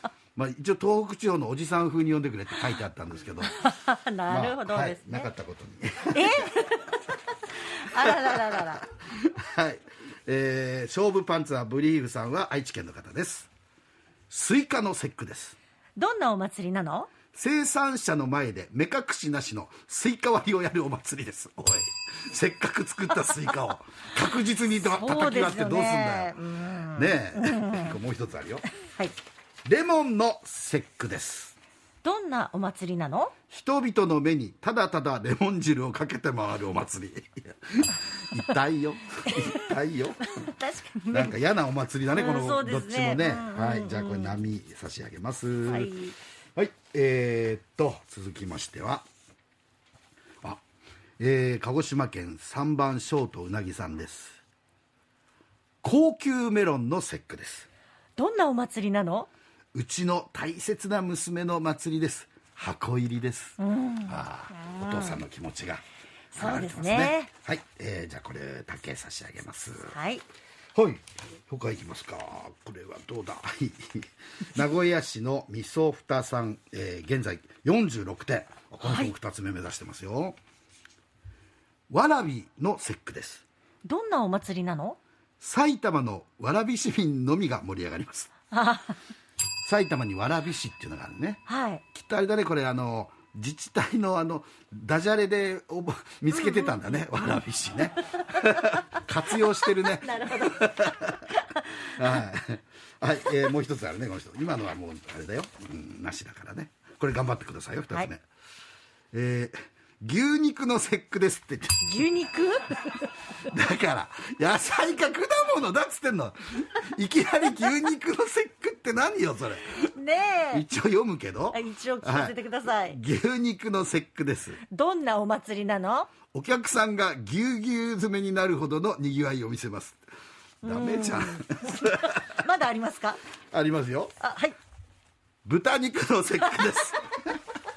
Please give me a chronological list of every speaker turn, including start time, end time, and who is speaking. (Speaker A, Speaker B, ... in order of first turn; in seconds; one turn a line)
Speaker A: 0.3-3.6
Speaker B: 3.5-5.3
Speaker A: 4.3-6.5
Speaker B: 6.1-8.8
Speaker A: 8.0-13.5
Speaker A: 14.3-15.6
Speaker B: 16.0-17.1
Speaker A: 17.3-26.4
Speaker B: 24.8-27.9
Speaker A: 26.9-28.7
Speaker B: 28.9-29.1
Speaker A: 29.7-31.6
Speaker B: 32.0-33.3
Speaker A: 33.5-40.2
Speaker B: 39.3-39.6
Speaker B: 40.2-41.4
Speaker A: 41.1-45.9
Speaker B: 42.1-44.4
Speaker B: 45.6-46.2
Speaker A: 46.6-49.1
Speaker A: 51.2-54.4
Speaker A: 55.8-57.7
Speaker B: 58.2-59.3
Speaker A: 59.7-65.8
Speaker B: 63.6-65.2
Speaker B: 66.3-67.3
Speaker A: 66.4-70.0
Speaker B: 69.9-70.2
Speaker A: 70.7-80.4
Speaker B: 78.8-79.1
Speaker A: 81.9-83.4
Speaker B: 83.8-85.0
Speaker A: 85.4-88.3
Speaker B: 88.5-89.0
Speaker A: 89.6-101.2
Speaker B: 91.5-91.8
Speaker B: 96.3-96.8
Speaker B: 99.8-102.2
Speaker A: 101.8-108.2
Speaker A: 109.1-112.0
Speaker B: 111.8-113.1
Speaker A: 113.5-119.9
Speaker B: 119.9-120.7
Speaker A: 120.5-122.4
Speaker B: 121.5-123.0
Speaker A: 122.9-124.6
Speaker B: 124.7-126.1
Speaker A: 126.3-130.0
Speaker B: 130.6-133.2
Speaker A: 130.7-132.3
Speaker A: 133.5-134.1
Speaker B: 134.2-134.6
Speaker A: 135.4-137.4